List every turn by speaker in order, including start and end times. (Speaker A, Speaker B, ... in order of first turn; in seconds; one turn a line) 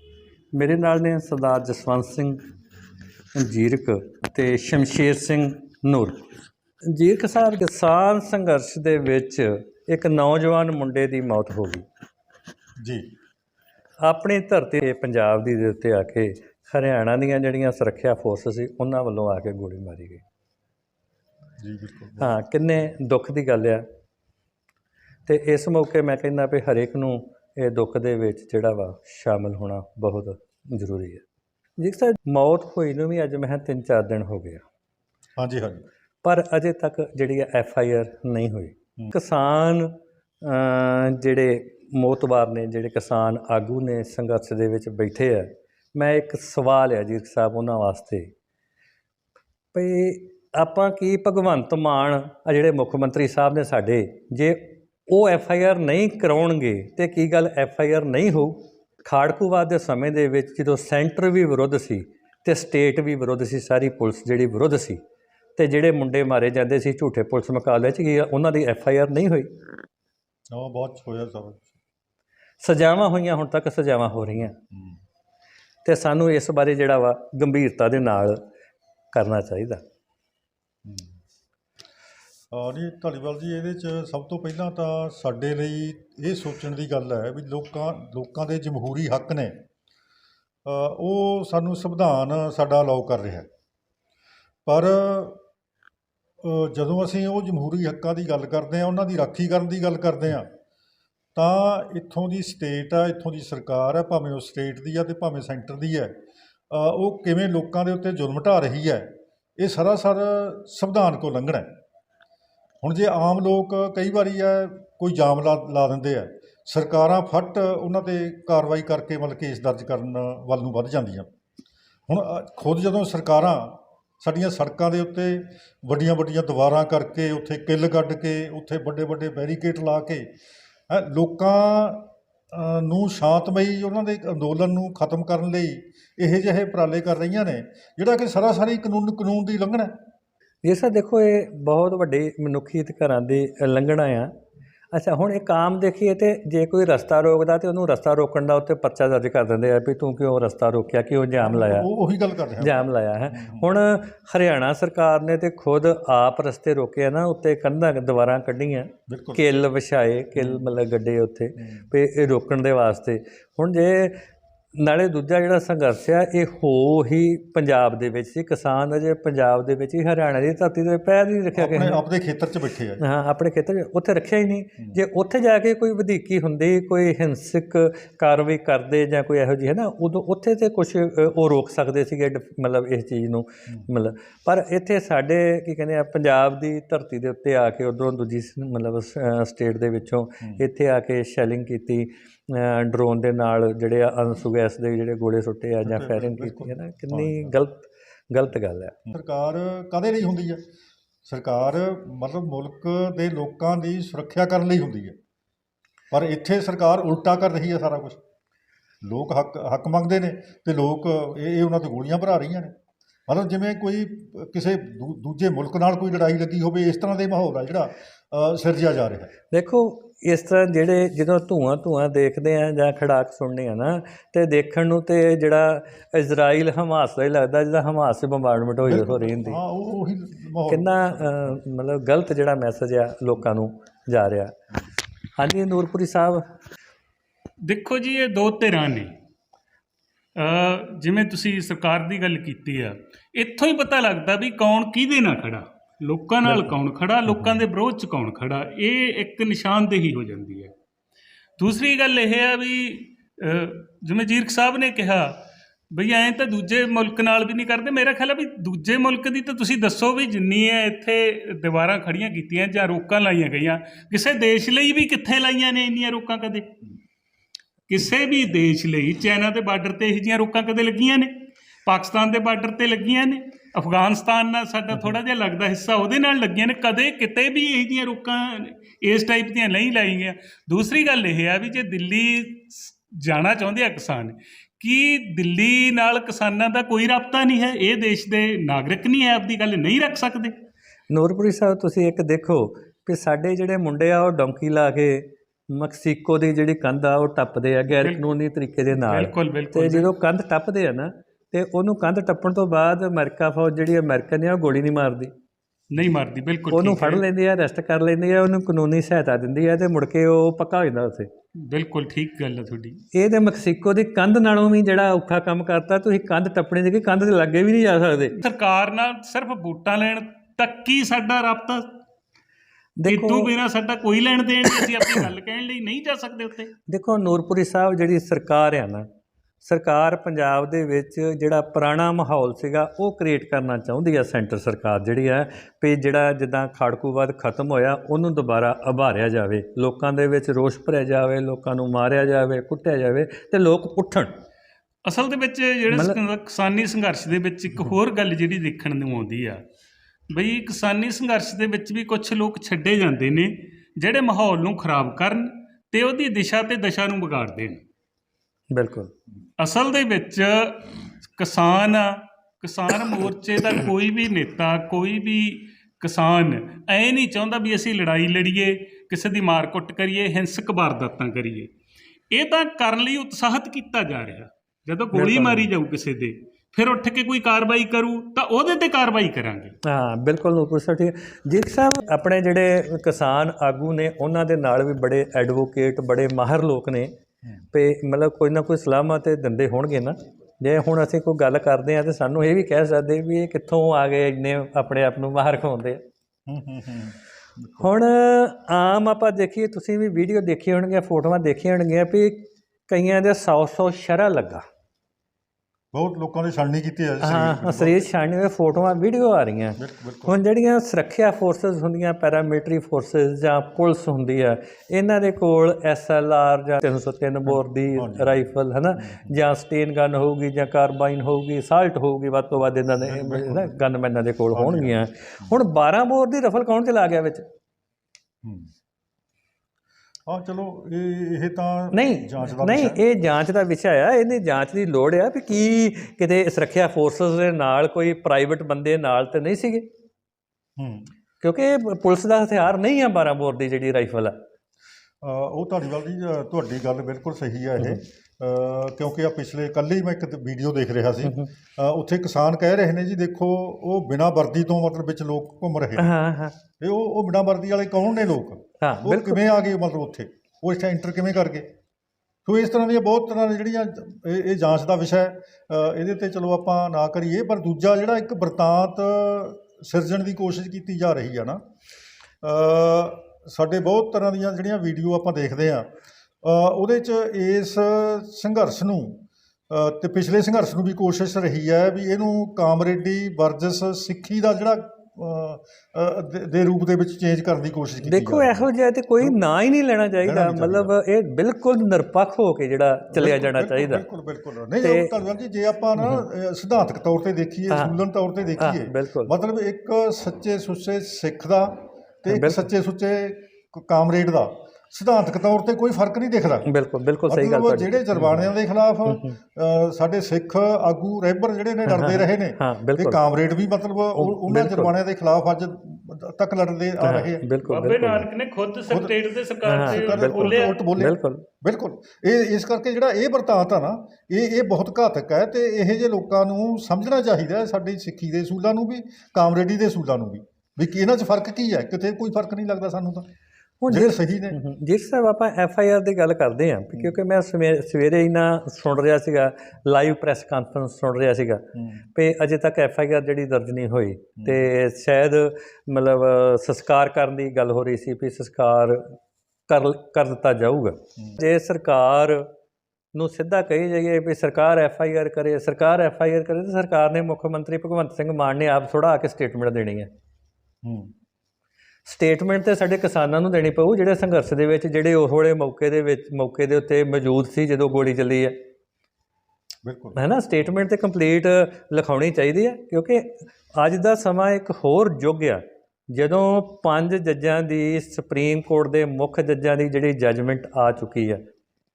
Speaker A: 0.5-2.4
Speaker A: 3.4-6.2
Speaker A: 6.9-11.9
Speaker B: 12.8-13.1
Speaker A: 14.0-20.2
Speaker B: 21.6-22.4
Speaker A: 22.2-23.9
Speaker A: 25.3-31.2
Speaker A: 31.8-34.6
Speaker B: 35.4-35.8
Speaker A: 36.2-48.3
Speaker A: 49.7-65.0
Speaker A: 65.6-69.5
Speaker B: 70.5-71.8
Speaker A: 72.6-74.6
Speaker B: 74.7-75.0
Speaker A: 75.8-78.4
Speaker A: 79.1-79.8
Speaker B: 82.5-89.6
Speaker B: 90.7-93.5
Speaker B: 94.7-95.4
Speaker B: 96.4-100.5
Speaker B: 101.3-106.1
Speaker B: 106.7-111.7
Speaker B: 112.8-121.3
Speaker B: 122.1-130.3
Speaker B: 130.9-139.9
Speaker A: 140.6-144.3
Speaker A: 144.9-151.9
Speaker B: 151.4-153.7
Speaker A: 152.6-164.2
Speaker B: 159.1-159.4
Speaker B: 160.4-160.6
Speaker A: 164.8-172.0
Speaker B: 171.6-173.0
Speaker A: 173.0-199.0
Speaker B: 195.8-197.6
Speaker B: 199.1-200.6
Speaker B: 201.2-205.2
Speaker B: 206.1-208.2
Speaker B: 209.0-212.8
Speaker B: 213.3-219.3
Speaker A: 219.5-229.6
Speaker B: 228.8-231.5
Speaker A: 230.7-234.6
Speaker A: 235.4-236.4
Speaker C: 237.6-239.1
Speaker C: 240.3-250.7
Speaker C: 251.6-266.8
Speaker C: 267.9-290.6
Speaker A: 291.1-305.3
Speaker C: 297.9-298.3
Speaker C: 298.9-300.1
Speaker C: 305.9-307.2
Speaker A: 306.7-311.3
Speaker C: 311.6-313.0
Speaker A: 313.1-318.4
Speaker C: 318.4-321.9
Speaker A: 323.0-323.5
Speaker C: 323.1-326.7
Speaker A: 324.8-325.3
Speaker A: 326.9-329.1
Speaker A: 329.6-344.3
Speaker C: 345.1-349.6
Speaker A: 345.9-346.2
Speaker C: 350.3-357.8
Speaker A: 358.7-359.1
Speaker C: 359.6-371.7
Speaker C: 372.3-379.8
Speaker A: 375.1-375.7
Speaker A: 379.8-387.1
Speaker A: 387.7-396.0
Speaker B: 396.5-397.7
Speaker A: 397.8-404.6
Speaker B: 405.9-408.1
Speaker A: 407.2-427.4
Speaker B: 409.8-410.4
Speaker B: 417.5-418.4
Speaker B: 419.0-419.4
Speaker B: 423.0-423.8
Speaker B: 424.5-425.5
Speaker B: 428.4-428.7
Speaker B: 430.3-433.0
Speaker A: 431.9-439.9
Speaker B: 440.8-441.1
Speaker A: 441.4-444.4
Speaker B: 445.2-456.1
Speaker A: 451.2-451.5
Speaker A: 456.0-456.6
Speaker B: 456.8-461.7
Speaker A: 458.8-459.4
Speaker B: 462.4-471.6
Speaker B: 472.4-475.9
Speaker B: 476.4-488.7
Speaker A: 488.0-494.0
Speaker B: 490.2-491.0
Speaker B: 493.1-506.7
Speaker A: 494.8-495.1
Speaker A: 497.7-498.0
Speaker A: 498.6-499.3
Speaker A: 502.3-502.7
Speaker A: 506.7-508.5
Speaker B: 507.3-517.5
Speaker A: 509.1-509.4
Speaker A: 511.9-513.2
Speaker A: 514.2-514.9
Speaker A: 517.0-518.3
Speaker C: 517.6-520.8
Speaker A: 519.6-521.5
Speaker B: 519.7-533.3
Speaker A: 533.8-549.2
Speaker B: 533.9-534.6
Speaker B: 541.8-542.0
Speaker B: 544.4-544.6
Speaker A: 549.7-552.5
Speaker A: 553.1-560.1
Speaker B: 560.8-561.1
Speaker A: 562.0-568.6
Speaker B: 569.8-570.2
Speaker A: 570.2-581.4